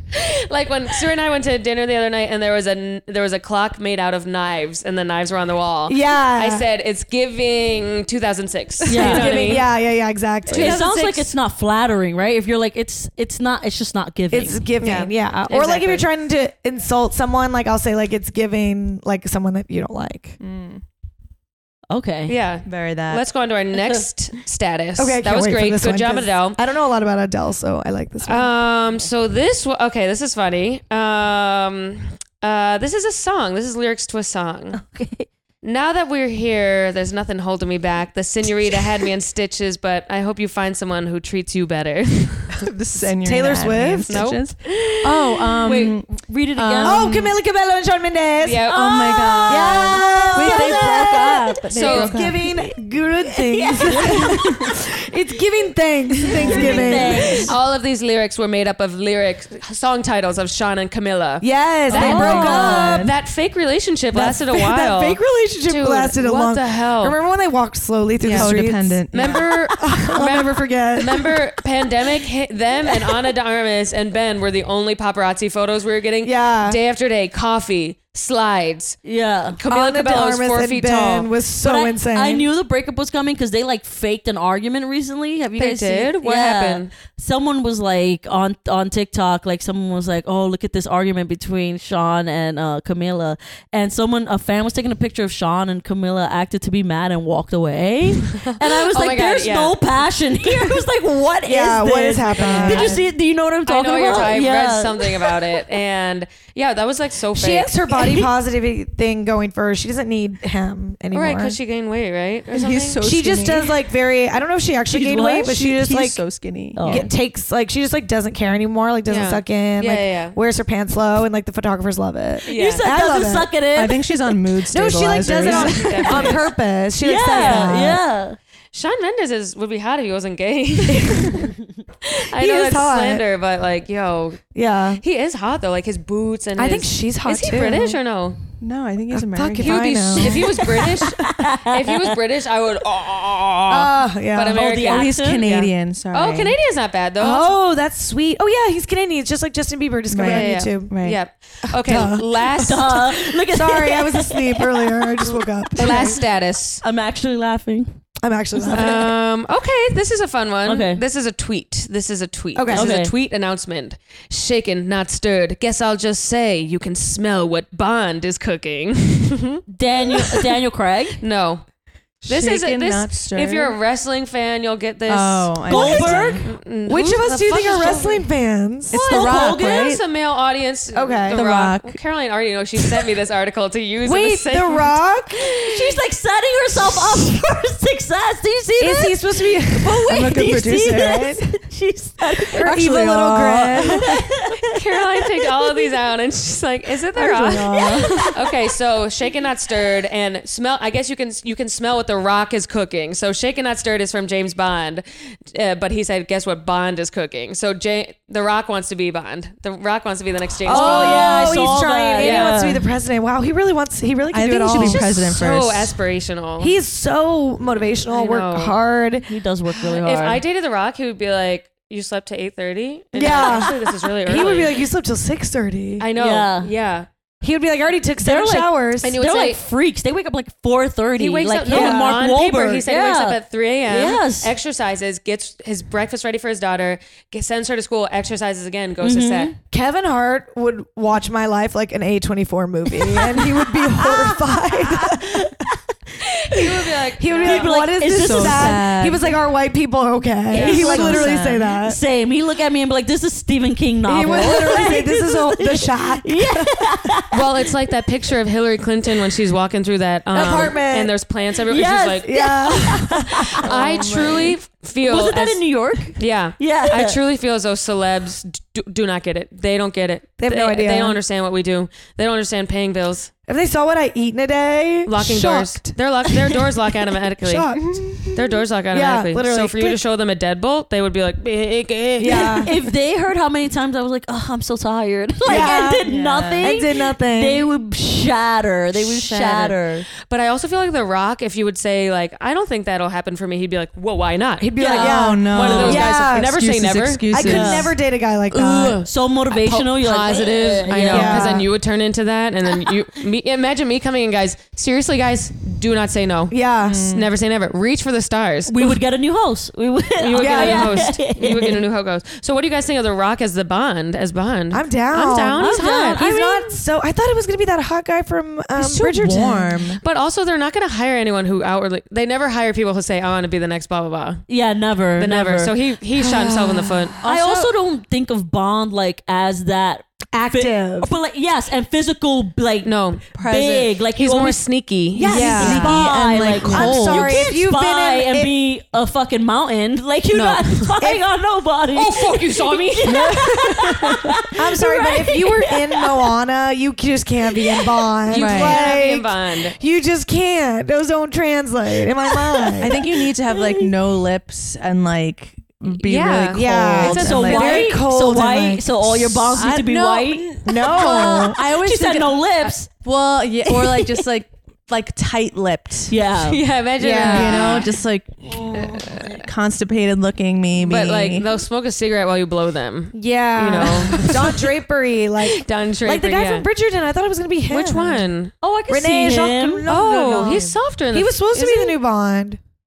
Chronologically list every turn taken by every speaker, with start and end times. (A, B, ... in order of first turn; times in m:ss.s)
0:00.1-0:09.7 A
0:05.9-0:06.6 B
0:08.9-0:09.6 C
0:08.9-0:10.8 B
0:10.5-0:11.3 A
0:10.5-0:14.6 C
0:14.3-0:20.4 B
0:14.8-0:16.1 A
0:20.4-0:20.8 D
0:21.9-0:22.4 C
0:22.3-0:26.6 A
0:22.7-0:23.2 D
0:25.0-0:28.5 B
0:28.2-0:34.8 A
0:34.7-0:35.3 C
0:35.6-0:42.7 A
0:42.5-0:47.4 D
0:43.2-0:44.3 B
0:44.1-0:44.9 A
0:45.6-0:47.1 C
0:46.8-0:48.7 B
0:48.4-0:49.8 A
0:48.7-0:52.6 D
0:49.4-0:52.0 C
0:49.4-0:57.5 B
0:51.7-0:52.2 A
0:53.4-0:54.7 C
0:53.9-0:54.7 D
0:56.2-0:57.4 D
0:56.2-0:57.6 C
0:57.4-1:07.2 A
1:01.4-1:03.1 B
1:01.9-1:03.0 C
1:02.0-1:03.1 D
1:04.1-1:11.4 B
1:08.2-1:08.6 A
1:08.3-1:09.5 D
1:09.1-1:19.0 A
1:16.2-1:16.8 B
1:19.0-1:19.6 C
1:19.5-1:21.3 A
1:19.6-1:22.5 B
1:21.6-1:45.6 C
1:25.6-1:26.9 A
1:38.4-1:39.8 A
1:41.4-1:43.0 B
1:42.4-1:43.1 A
1:43.6-1:47.8 A
1:47.4-1:51.6 B
1:47.9-1:48.3 C
1:51.1-1:53.0 A
1:52.5-1:53.8 D
1:53.0-1:56.2 B
1:54.9-1:57.1 D
1:55.0-1:55.5 C
1:56.8-1:57.1 C
1:56.8-2:03.5 B
1:59.1-2:00.4 A
2:02.5-2:04.1 C
2:02.5-2:02.9 A
2:03.7-2:06.4 D
2:04.7-2:08.0 B
2:05.4-2:06.5 A
2:07.0-2:08.4 C
2:08.7-2:14.4 A
2:10.9-2:11.5 B
2:12.3-2:13.3 B
2:14.5-2:15.0 B
2:15.0-2:18.4 A
2:16.6-2:18.0 B
2:18.6-2:20.2 D
2:19.1-2:21.0 B
2:19.6-2:27.5 A
2:21.2-2:22.2 C
2:23.7-2:24.7 B
2:24.6-2:25.5 C
2:24.8-2:26.6 D
2:27.2-2:30.9 B
2:30.1-2:31.2 D
2:30.2-2:33.0 A
2:31.7-2:36.2 B
2:32.6-2:36.1 C
2:35.8-2:36.8 A
2:36.8-2:37.9 C
2:38.2-2:39.1 B
2:38.6-2:39.1 C
2:38.7-2:49.6 A
2:40.7-2:41.0 C
2:42.6-2:43.0 B
2:42.7-2:43.1 C
2:49.7-2:51.2 C
2:51.2-2:51.6 A
2:52.2-2:53.8 D
2:52.2-2:58.3 A
2:55.1-2:56.5 D
2:55.7-2:56.5 C
2:56.9-2:59.0 B
2:58.9-3:05.0 A
2:59.0-3:00.0 C
2:59.0-3:00.0 D
3:00.9-3:01.4 B
3:01.3-3:02.0 D
3:04.0-3:05.4 B
3:05.6-3:14.6 C
3:08.8-3:10.0 B
3:10.0-3:11.6 D
3:12.6-3:14.2 B
3:12.6-3:14.2 D
3:14.6-3:31.6 A
3:15.4-3:15.9 C
3:17.1-3:18.4 D
3:17.8-3:18.4 C
3:30.7-3:35.1 B
3:30.7-3:32.9 C
3:32.2-3:32.6 A
3:34.3-3:35.9 D
3:34.7-3:36.7 A
3:36.6-3:39.3 B
3:38.1-3:38.8 A
3:39.3-3:40.4 C
3:39.8-3:44.8 A
3:43.1-3:46.1 B
3:46.0-3:47.1 A
3:46.2-3:46.7 C
3:47.4-3:49.1 B
3:48.2-3:54.5 C
3:49.0-3:49.6 A
3:51.2-3:59.5 A
3:51.7-3:52.1 B
3:59.0-3:59.5 C
3:59.7-4:05.7 B
4:04.0-4:05.8 C
4:06.5-4:07.8 A
4:07.2-4:12.0 B
4:07.4-4:09.2 C
4:08.0-4:09.3 D
4:10.5-4:17.7 C
4:10.6-4:11.8 D
4:14.1-4:16.8 B
4:17.3-4:22.4 A
4:20.3-4:21.1 B
4:21.7-4:23.4 C
4:22.2-4:23.9 B
4:23.5-4:33.3 A
4:23.7-4:24.6 D
4:25.0-4:27.2 C
4:30.4-4:31.2 B
4:33.5-4:36.0 B
4:35.1-4:42.9 A
4:37.4-4:38.4 B
4:38.9-4:40.0 B
4:42.2-4:42.7 B
4:42.2-4:50.1 C
4:45.4-4:47.7 B
4:45.6-4:46.7 D
4:49.0-4:57.3 A
4:54.6-4:56.6 B
4:54.8-4:56.1 C
4:55.0-4:57.9 D
4:57.3-4:59.0 B
4:57.4-4:58.0 C
4:58.5-5:06.6 A
4:58.9-5:01.6 C
5:01.1-5:01.7 B
5:06.5-5:07.0 B
5:06.9-5:07.3 D
5:07.1-5:08.7 A
5:08.7-5:11.8 C
5:10.2-5:16.7 A
5:10.4-5:11.0 B
5:14.7-5:19.9 B
5:15.6-5:16.5 C
5:18.8-5:20.0 D
5:20.0-5:24.5 A
5:24.5-5:25.8 C
5:25.2-5:27.7 A
5:26.1-5:27.1 B
5:27.2-5:46.0 C
5:30.3-5:31.1 B
5:32.8-5:36.0 A
5:33.4-5:33.8 D
5:35.2-5:38.5 B
5:35.3-5:36.1 D
5:36.6-5:36.9 A
5:36.6-5:37.3 D
5:40.3-5:40.9 A
5:41.0-5:41.2 B
5:41.9-5:43.3 A
5:43.1-5:44.4 D
5:44.6-5:53.1 B
5:48.3-5:49.8 A
5:48.3-5:48.9 D
5:52.8-5:57.9 D
5:53.5-5:53.9 C
5:55.9-5:57.9 A
5:56.5-5:59.6 B
5:57.0-6:02.9 C
5:59.6-6:06.2 D
6:00.6-6:01.6 B
6:03.7-6:04.3 C
6:06.1-6:06.6 C
6:06.4-6:07.9 A
6:07.0-6:07.7 B
6:07.2-6:11.4 D
6:10.8-6:14.5 A
6:13.1-6:18.3 B
6:14.1-6:14.5 D
6:15.4-6:16.7 A
6:17.7-6:18.5 A
6:18.6-6:19.9 C
6:18.9-6:22.6 B
6:19.9-6:22.0 A